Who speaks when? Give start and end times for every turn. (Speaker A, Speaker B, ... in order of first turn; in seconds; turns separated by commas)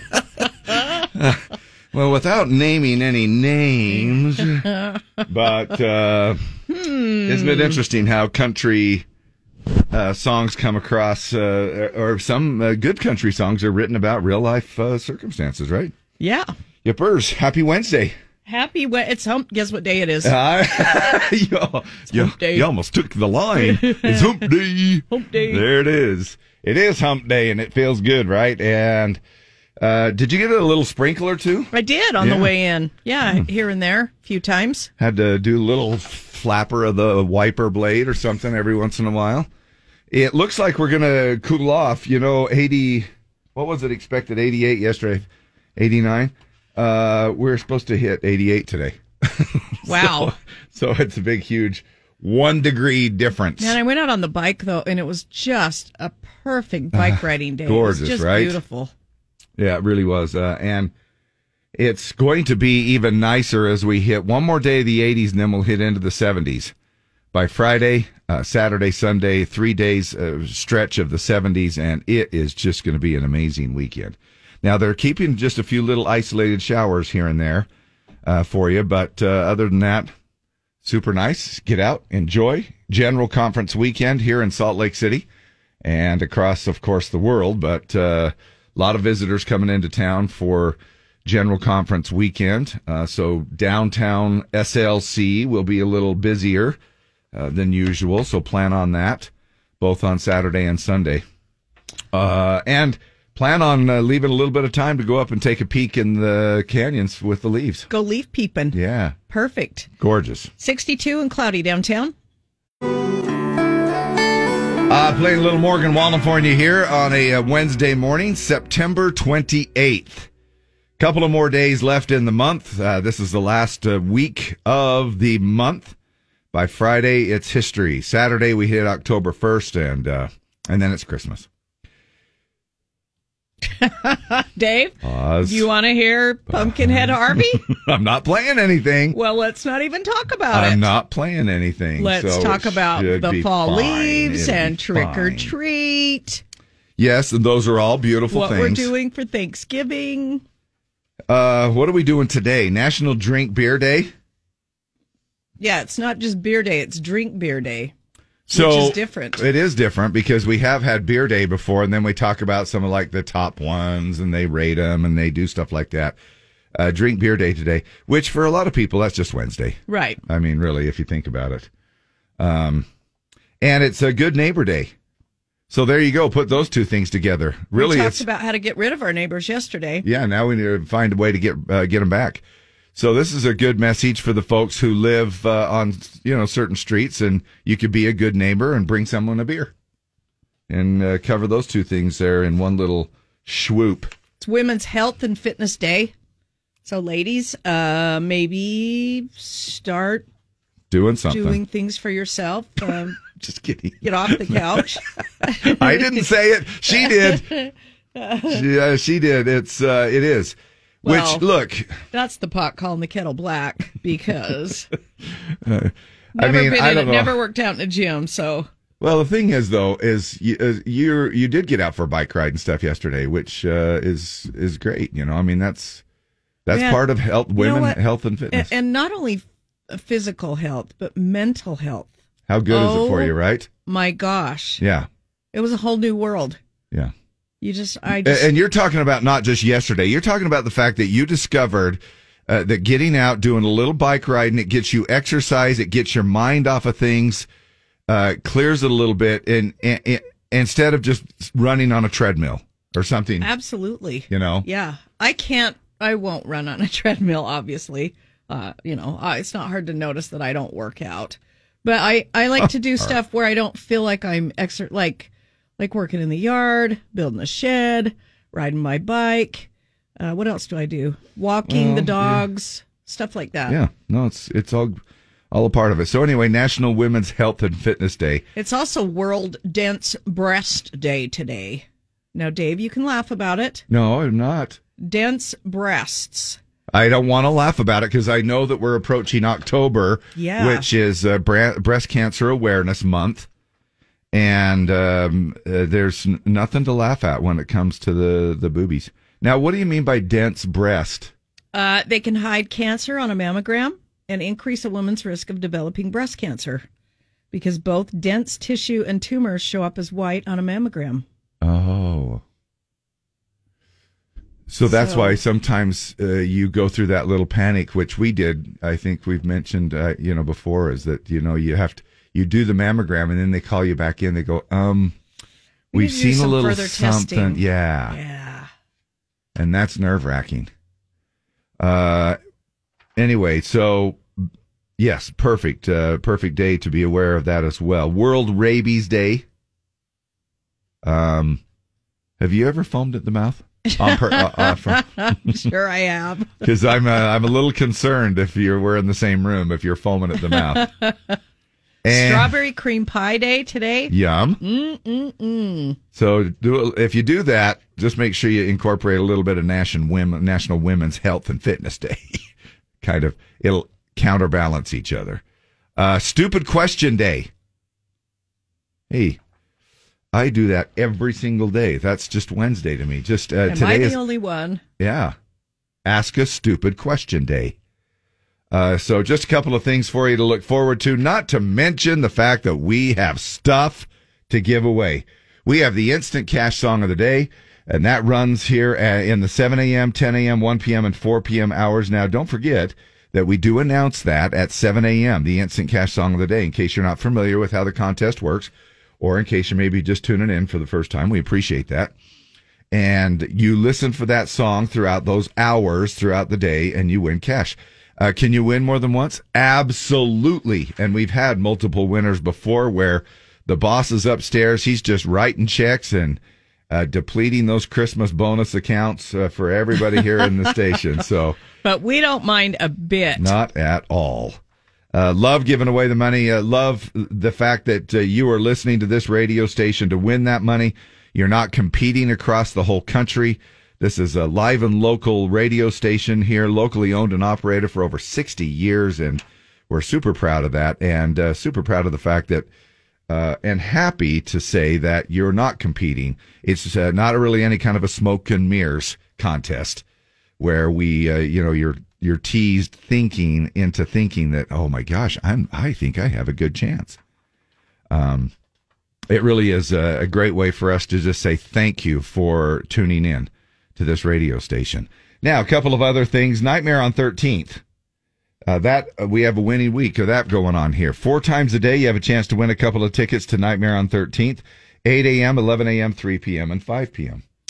Speaker A: 1.0-4.7, Speaker A: 5.3-6.4, Speaker B: 6.7-7.8, Speaker A: 7.3-9.1, Speaker A: 9.9-15.9, Speaker B: 16.2-16.5, Speaker A: 16.8-18.1, Speaker B: 18.5-20.4, Speaker A: 20.2-29.2, Speaker B: 20.9-21.2, Speaker B: 22.1-22.7, Speaker B: 23.6-24.4, Speaker B: 25.1-25.6, Speaker A: 29.8-32.5, Speaker B: 31.7-34.9, Speaker A: 35.0-39.5, Speaker A: 40.1-45.3, Speaker A: 45.8-53.8, Speaker B: 49.9-50.4, Speaker B: 53.6-58.9, Speaker A: 56.9-58.6, Speaker A: 59.6-60.9, Speaker A: 61.8-66.7, Speaker A: 67.3-77.7, Speaker A: 78.2-80.1, Speaker A: 80.8-85.3, Speaker A: 85.8-96.8, Speaker A: 97.3-101.2, Speaker A: 102.1-107.9, Speaker B: 107.9-108.8, Speaker A: 108.7-109.2, Speaker B: 109.3-109.9, Speaker A: 110.0-110.5, Speaker B: 110.6-112.1, Speaker A: 114.9-120.3, Speaker A: 121.0-126.0, Speaker A: 126.5-131.5, Speaker B: 133.8-137.6, Speaker A: 135.0-135.7, Speaker A: 136.5-139.2, Speaker B: 139.1-140.9, Speaker A: 140.5-145.5, Speaker B: 142.0-146.4, Speaker A: 147.0-148.9, Speaker B: 148.3-150.4, Speaker A: 151.3-154.1, Speaker B: 155.6-157.9, Speaker A: 158.5-166.2, Speaker B: 158.5-159.4, Speaker A: 166.8-171.7, Speaker B: 169.9-170.2, Speaker A: 172.4-172.9, Speaker A: 173.6-174.9, Speaker A: 175.7-178.2, Speaker B: 177.8-180.1, Speaker A: 180.0-182.4, Speaker A: 182.9-189.7, Speaker A: 190.7-194.1, Speaker B: 194.4-196.1, Speaker B: 196.8-200.3, Speaker A: 200.9-201.6, Speaker B: 201.3-203.2, Speaker A: 203.2-204.8, Speaker B: 204.0-206.3, Speaker A: 205.6-207.5, Speaker B: 206.9-208.7, Speaker A: 208.5-212.0, Speaker B: 211.0-211.5, Speaker B: 212.1-214.9, Speaker A: 215.7-217.3, Speaker B: 216.3-218.7, Speaker A: 219.0-226.0, Speaker A: 226.7-228.7, Speaker B: 226.7-227.0, Speaker B: 227.6-228.0, Speaker B: 228.5-232.1, Speaker A: 232.5-233.7, Speaker B: 232.7-233.3, Speaker B: 233.9-234.8, Speaker A: 234.8-235.1, Speaker B: 235.5-236.6, Speaker B: 237.6-238.5, Speaker A: 238.2-247.5, Speaker A: 248.1-253.5, Speaker B: 253.4-273.8, Speaker A: 254.3-254.7, Speaker A: 262.6-263.1, Speaker A: 271.7-272.4, Speaker A: 273.7-278.4, Speaker B: 278.6-283.9, Speaker A: 283.9-284.8, Speaker B: 285.0-286.6, Speaker A: 286.9-293.5, Speaker B: 290.4-290.9, Speaker A: 294.3-301.3, Speaker B: 301.7-306.9, Speaker B: 307.5-311.2, Speaker A: 311.6-312.4, Speaker A: 314.7-325.1, Speaker B: 314.9-315.4, Speaker B: 325.9-328.7, Speaker A: 325.9-328.2, Speaker A: 329.6-330.7, Speaker A: 331.8-332.4, Speaker A: 333.2-334.2, Speaker A: 335.0-339.4, Speaker A: 341.0-341.6, Speaker A: 342.4-345.1, Speaker B: 343.9-346.6, Speaker A: 346.6-350.9, Speaker B: 350.5-351.4, Speaker A: 352.0-352.5, Speaker B: 352.1-356.0, Speaker A: 354.1-354.6, Speaker A: 356.1-362.4, Speaker A: 363.0-365.4, Speaker A: 366.0-367.5, Speaker A: 369.1-369.4, Speaker A: 370.3-374.2, Speaker B: 373.7-374.8, Speaker A: 375.0-375.4, Speaker A: 376.1-377.8, Speaker A: 378.7-402.1, Speaker A: 402.9-421.6, Speaker B: 421.8-423.5, Speaker A: 423.4-424.6, Speaker A: 425.1-442.7, Speaker A: 443.3-450.0, Speaker A: 450.6-457.2, Speaker A: 458.1-458.5, Speaker A: 459.3-467.8, Speaker A: 468.7-477.4